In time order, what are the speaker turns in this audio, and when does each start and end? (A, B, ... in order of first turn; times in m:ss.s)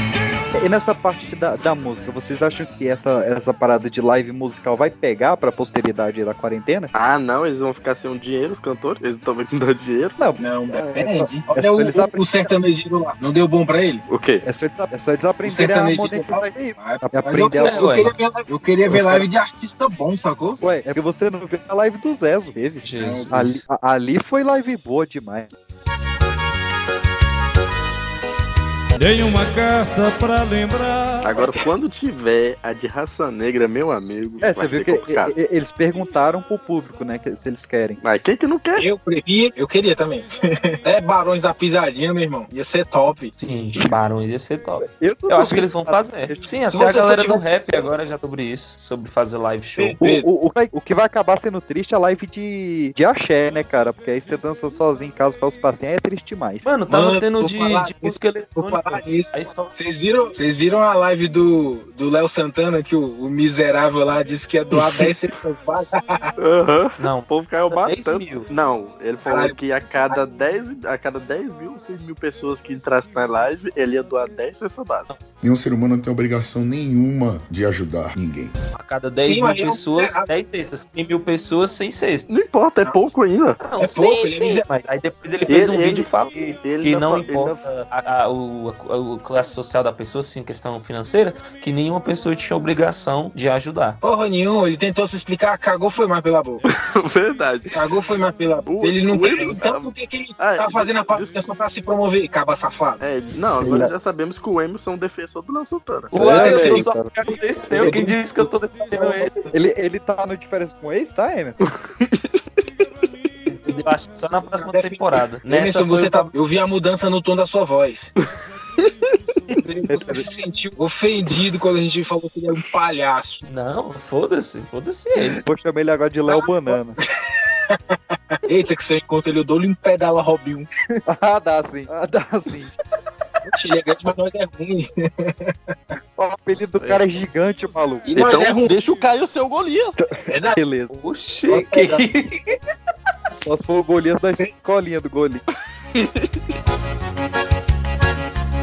0:00.5-0:06.9 A
0:06.9-0:10.2 B
0:10.2-0:12.5 A
0:10.4-0:14.0 C
0:14.1-0:14.4 B
0:14.4-0:18.1 A
0:15.4-0:20.6 C
0:17.6-0:18.1 D
0:18.9-0:19.3 A
0:20.6-0:25.5 A
0:22.8-0:23.5 D
0:23.0-0:23.6 C
0:29.0-0:31.4 E
0:31.2-0:35.3 B
0:34.4-0:38.0 A
0:38.0-0:38.8 B
0:38.8-0:43.3 C
0:43.4-0:50.0 D
0:44.8-0:46.5 A
0:46.7-0:47.4 C
0:49.8-0:50.3 C
0:50.0-0:56.7 A
0:56.6-0:59.7 D
0:56.9-1:06.3 C
1:04.8-1:05.1 B
1:06.4-1:15.1 B
1:07.0-1:08.5 D
1:09.2-1:09.6 C
1:15.4-1:18.5 F
1:18.8-1:22.3 D
1:19.2-1:20.3 C
1:22.3-1:23.6 B
1:23.6-1:34.0 D
1:23.8-1:24.6 C
1:25.5-1:27.7 B
1:34.0-1:36.7 C
1:36.8-1:37.8 B
1:37.7-1:43.0 C
1:38.7-1:41.4 B
1:43.0-1:46.8 B
1:43.6-1:43.9 A
1:46.1-1:49.4 D
1:46.2-1:48.2 A
1:48.9-1:51.6 A
1:51.8-1:52.3 B
1:53.5-1:56.3 D
1:54.6-1:58.1 C
1:59.6-2:03.4 C
1:59.9-2:00.3 A
2:03.5-2:05.4 D
2:05.4-2:07.0 A
2:06.3-2:06.8 C
2:07.7-2:10.7 C
2:11.0-2:12.7 A
2:13.5-2:15.5 C
2:16.2-2:18.1 A
2:16.6-2:17.1 D
2:18.1-2:18.8 C
2:18.1-2:20.0 B
2:20.0-2:20.9 A
2:20.3-2:20.6 C
2:20.9-2:22.4 D
2:21.5-2:22.1 A
2:23.4-2:25.4 A
2:26.0-2:26.4 B